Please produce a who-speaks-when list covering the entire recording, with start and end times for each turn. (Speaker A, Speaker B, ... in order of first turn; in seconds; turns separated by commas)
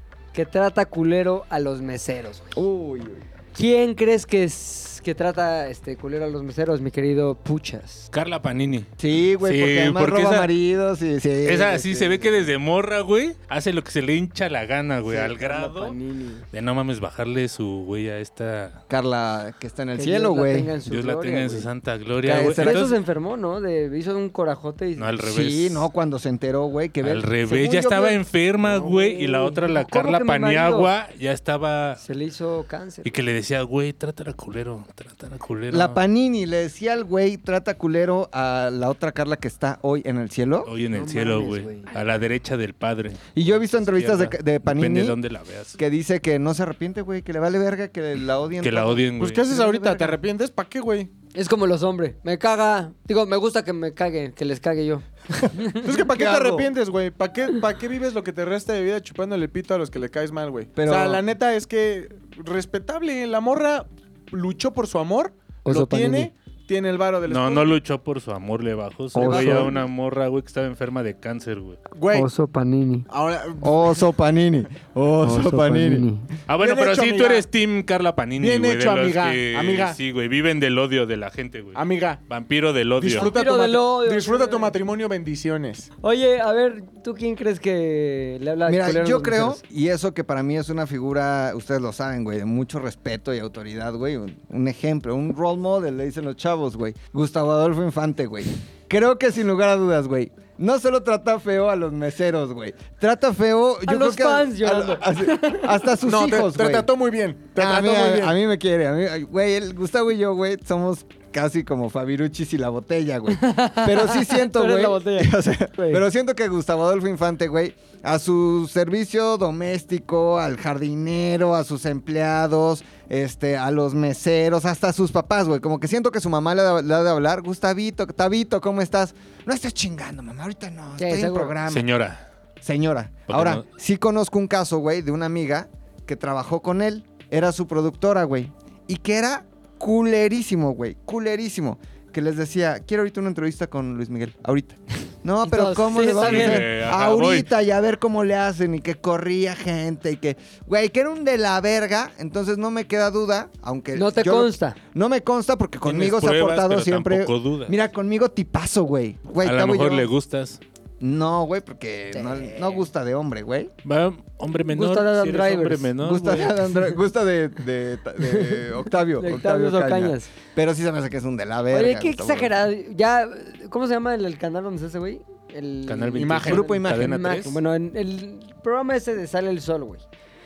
Speaker A: 0.3-2.6, Speaker B: 2.5-3.2, Speaker A: 3.5-8.1, Speaker C: 8.1-10.5, Speaker B: 9.0-12.3, Speaker C: 11.4-15.9, Speaker A: 15.1-16.4, Speaker C: 16.5-18.8, Speaker B: 18.9-20.7, Speaker A: 19.9-21.7, Speaker C: 20.9-22.9, Speaker B: 22.2-22.9, Speaker A: 22.2-25.1, Speaker C: 25.0-25.9, Speaker B: 25.2-28.2, Speaker C: 27.0-32.0, Speaker A: 28.6-30.9, Speaker A: 32.0-33.1, Speaker C: 33.0-36.0, Speaker B: 35.7-40.7, Speaker C: 40.6-45.8, Speaker A: 40.9-41.9, Speaker B: 43.4-45.2, Speaker B: 45.8-50.2, Speaker C: 48.6-49.5, Speaker D: 49.2-51.1, Speaker A: 51.3-55.9, Speaker D: 55.8-67.8, Speaker B: 56.1-56.7, Speaker B: 60.8-61.2, Speaker A: 65.6-66.3, Speaker C: 67.3-71.8, Speaker A: 69.1-69.7, Speaker D: 69.2-69.8, Speaker D: 71.9-72.3, Speaker A: 72.1-73.0, Speaker D: 73.1-74.0, Speaker B: 73.6-76.0, Speaker A: 75.2-76.3, Speaker C: 76.5-83.3, Speaker D: 76.6-77.5, Speaker D: 78.4-80.0, Speaker D: 81.7-82.2, Speaker D: 83.0-85.9, Speaker A: 83.1-84.7, Speaker A: 86.0-89.6, Speaker B: 88.7-106.9, Speaker A: 103.9-105.8, Speaker D: 106.0-108.3, Speaker B: 107.5-131.9, Speaker A: 113.3-116.0, Speaker A: 131.0-131.5, Speaker C: 131.7-132.2, Speaker B: 132.6-160.1, Speaker C: 133.3-133.6, Speaker A: 145.4-146.7, Speaker C: 146.0-147.5, Speaker A: 153.9-154.8, Speaker C: 155.8-157.8, Speaker C: 159.4-160.6, Speaker B: 161.0-163.7, Speaker A: 162.1-162.8, Speaker C: 163.8-166.5, Speaker A: 164.7-165.9, Speaker B: 166.0-172.5, Speaker A: 168.2-170.3, Speaker A: 171.7-180.0, Speaker C: 175.9-177.6, Speaker D: 176.2-176.7, Speaker B: 176.5-177.1